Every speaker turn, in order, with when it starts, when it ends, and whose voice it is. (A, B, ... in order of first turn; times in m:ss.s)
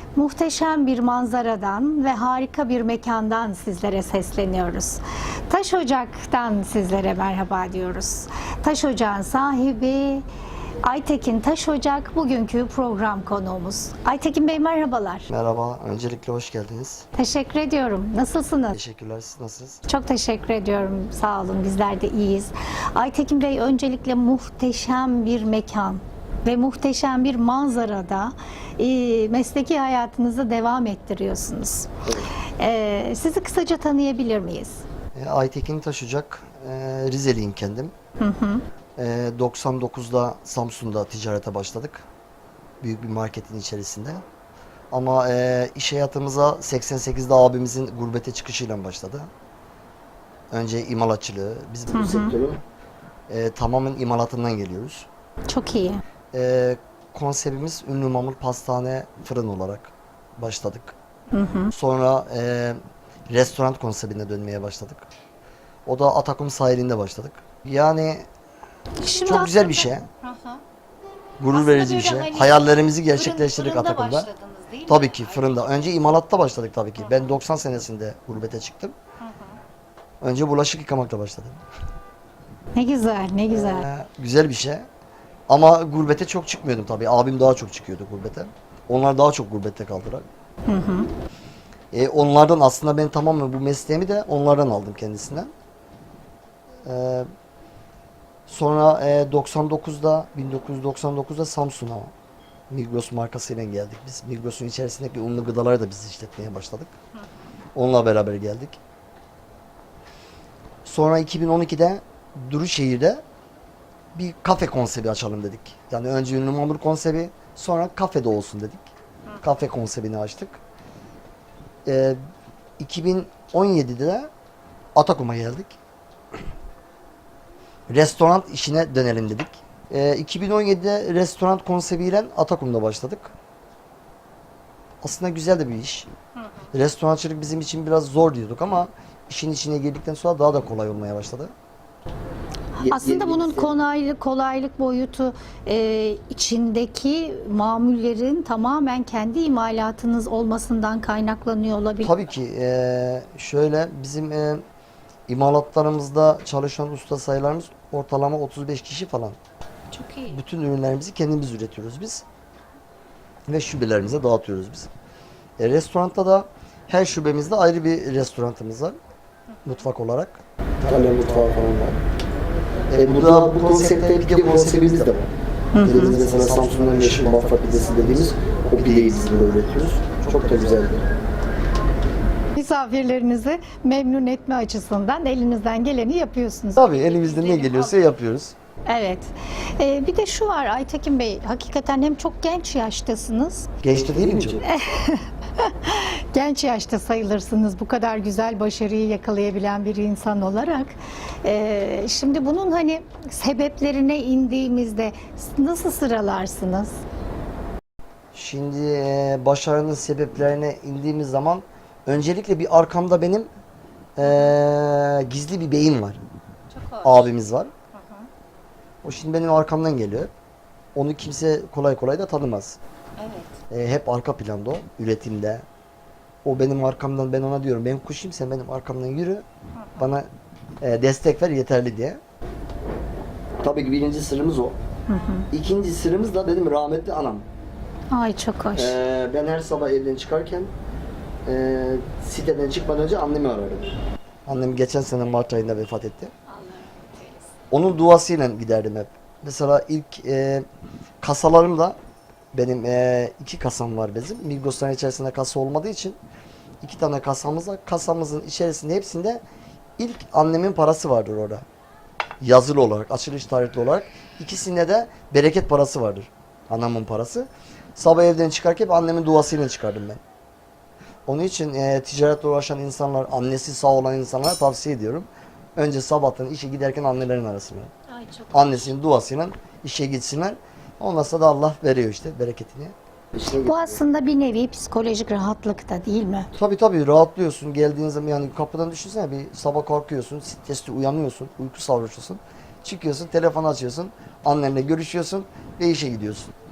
0:00.2-0:10.2 A
0:10.8-0:15.3 A
0:15.3-0:17.1 B
0:17.2-0:18.8 A
0:18.7-0:19.8 B
0:19.9-0:31.9 A
0:32.0-0:32.3 B
0:32.6-0:34.8 A
0:35.2-0:37.9 B
0:38.2-0:38.6 A
0:39.0-0:42.1 B
0:42.8-0:44.2 B
0:44.9-0:49.3 B
0:50.5-0:52.6 B
0:51.9-0:52.4 A
0:53.3-0:55.1 B
0:55.5-0:56.0 A
0:56.3-1:01.0 B
1:01.3-1:01.7 A
1:01.7-1:02.8 B
1:03.3-1:05.1 B
1:05.9-1:08.3 B
1:09.0-1:10.6 A
1:09.2-1:10.1 B
1:11.4-1:14.3 B
1:11.5-1:15.7 A
1:14.9-1:18.9 B
1:17.0-1:17.3 A
1:19.2-1:19.5 A
1:20.2-1:21.6 B
1:22.8-1:23.9 A
1:23.5-1:24.9 B
1:25.5-1:30.2 B
1:30.7-1:31.1 A
1:31.9-1:35.5 B
1:36.8-1:37.3 B
1:38.5-1:42.1 B
1:42.7-1:46.9 B
1:47.8-1:48.8 B
1:50.8-1:53.2 B
1:54.2-1:58.9 B
1:59.4-2:00.6 B
2:01.8-2:02.2 B
2:02.8-2:04.3 B
2:05.0-2:05.8 B
2:07.9-2:13.3 B
2:15.0-2:16.1 B
2:16.7-2:21.5 B
2:22.8-2:32.3 A
2:22.8-2:23.7 B
2:32.0-2:34.6 B
2:35.3-2:39.4 B
2:39.9-2:40.4 A
2:40.3-2:42.2 B
2:43.5-2:44.9 B
2:45.6-2:49.0 B
2:49.6-2:52.0 B
2:52.9-2:55.3 B
2:55.7-2:56.1 A
2:55.8-3:01.1 B
3:02.5-3:08.0 A
3:06.8-3:08.6 B
3:08.9-3:13.7 A
3:13.8-3:14.6 B
3:14.6-3:20.9 A
3:21.4-3:26.9 A
3:28.3-3:33.5 B
3:34.2-3:36.2 B
3:36.7-3:37.3 A
3:37.0-3:37.7 B
3:37.9-3:38.3 A
3:39.0-3:40.3 B
3:41.0-3:42.8 B
3:43.2-3:43.6 A
3:43.7-3:45.6 B
3:46.4-3:49.4 B
3:50.0-3:50.3 B
3:50.8-3:52.2 B
3:53.6-3:54.8 B
3:55.1-3:55.5 A
3:55.5-3:57.5 B
3:58.1-3:59.0 A
3:58.8-4:00.7 B
4:01.5-4:06.3 B
4:06.5-4:07.5 A
4:07.7-4:10.7 B
4:11.2-4:12.0 B
4:12.5-4:16.2 B
4:16.8-4:19.4 B
4:20.0-4:21.6 B
4:22.4-4:30.2 B
4:31.3-4:37.9 B
4:38.1-4:38.9 A
4:38.5-4:44.0 B
4:43.5-4:46.5 A
4:46.5-4:56.5 B